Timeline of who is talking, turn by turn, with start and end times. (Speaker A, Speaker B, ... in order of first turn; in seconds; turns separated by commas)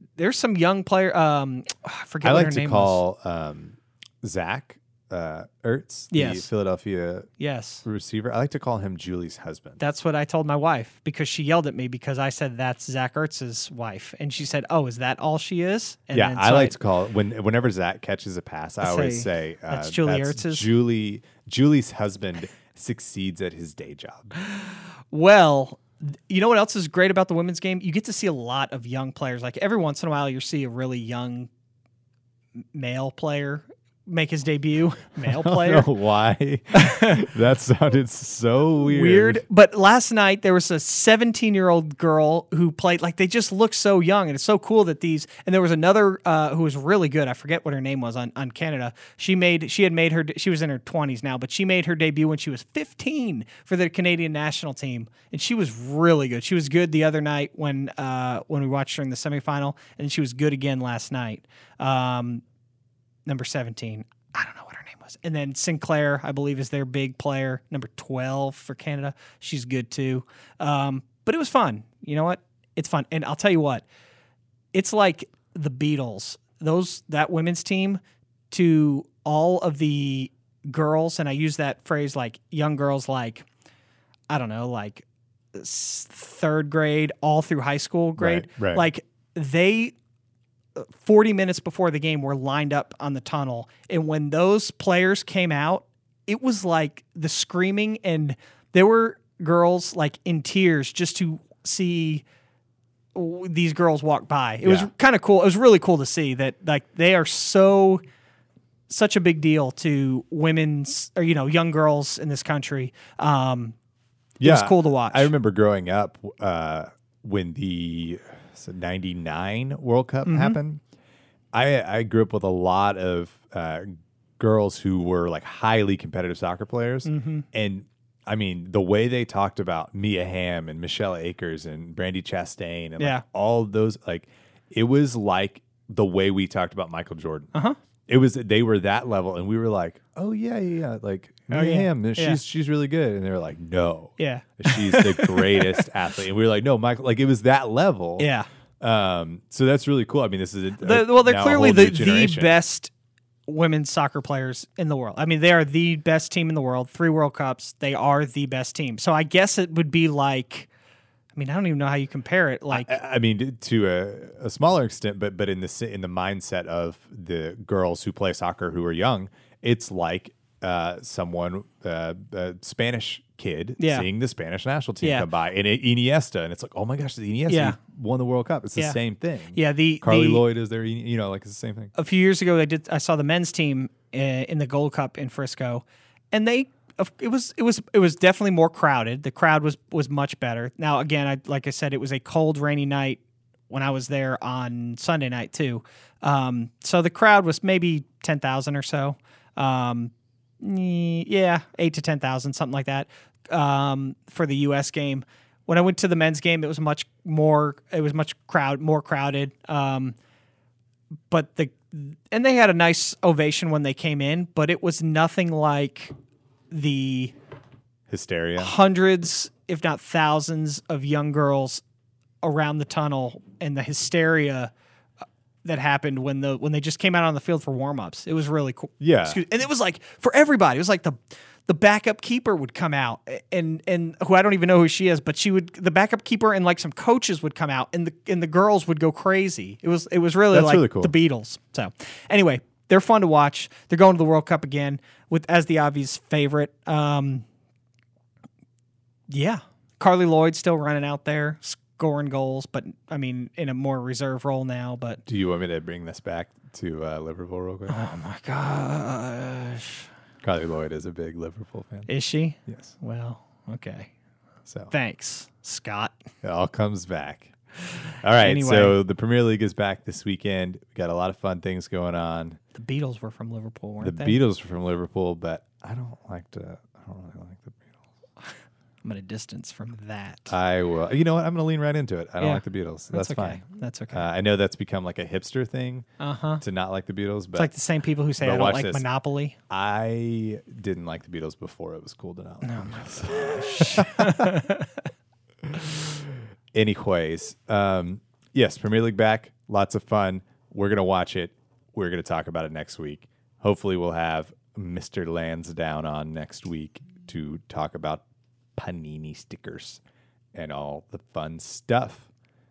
Speaker A: 0.2-3.0, Speaker B: 2.2-7.3, Speaker A: 6.1-6.5, Speaker A: 7.4-7.8, Speaker B: 7.8-9.8, Speaker A: 9.8-16.8, Speaker B: 16.1-24.3, Speaker A: 18.8-20.7, Speaker A: 24.4-31.5, Speaker A: 32.7-35.9, Speaker B: 35.2-39.4, Speaker A: 36.7-37.2, Speaker A: 38.8-62.4, Speaker A: 63.3-73.8, Speaker A: 74.7-83.5, Speaker A: 84.3-89.9, Speaker B: 88.2-88.8, Speaker A: 90.8-102.2, Speaker A: 103.2-108.0, Speaker B: 104.6-104.9, Speaker A: 108.9-113.8, Speaker B: 114.4-120.8, Speaker A: 114.4-115.3, Speaker A: 120.2-120.6, Speaker B: 121.5-137.5, Speaker A: 127.0-127.5, Speaker A: 133.0-133.2, Speaker B: 138.1-148.3, Speaker A: 141.5-142.4, Speaker A: 144.2-145.8, Speaker A: 148.2-148.5, Speaker B: 148.8-152.6, Speaker A: 150.8-152.9, Speaker A: 153.5-160.7, Speaker A: 161.3-163.0, Speaker B: 162.7-181.9, Speaker A: 173.8-174.1, Speaker A: 175.0-175.3, Speaker A: 177.5-177.8, Speaker A: 179.5-180.4, Speaker A: 182.0-210.2, Speaker A: 211.3-216.1, Speaker A: 216.7-217.3, Speaker B: 218.1-218.8, Speaker A: 218.6-221.8, Speaker A: 222.4-224.7, Speaker A: 225.7-247.4, Speaker B: 229.0-229.4, Speaker B: 240.5-241.1, Speaker A: 249.3-255.2, Speaker B: 255.3-258.0, Speaker A: 257.9-260.1, Speaker B: 260.4-262.1, Speaker A: 262.1-264.1, Speaker B: 262.7-262.9, Speaker B: 264.7-264.9, Speaker A: 264.9-266.1, Speaker B: 266.4-272.6, Speaker A: 268.4-269.0, Speaker A: 272.8-274.4, Speaker B: 274.0-277.9, Speaker A: 279.0-280.5, Speaker B: 280.5-286.1, Speaker A: 282.4-284.3, Speaker A: 286.2-286.6, Speaker B: 286.6-287.7, Speaker A: 287.6-289.6, Speaker B: 288.4-289.1, Speaker B: 289.7-294.5, Speaker A: 292.6-294.9, Speaker B: 295.7-296.2, Speaker B: 296.7-308.2, Speaker B: 308.8-310.0, Speaker B: 310.5-312.3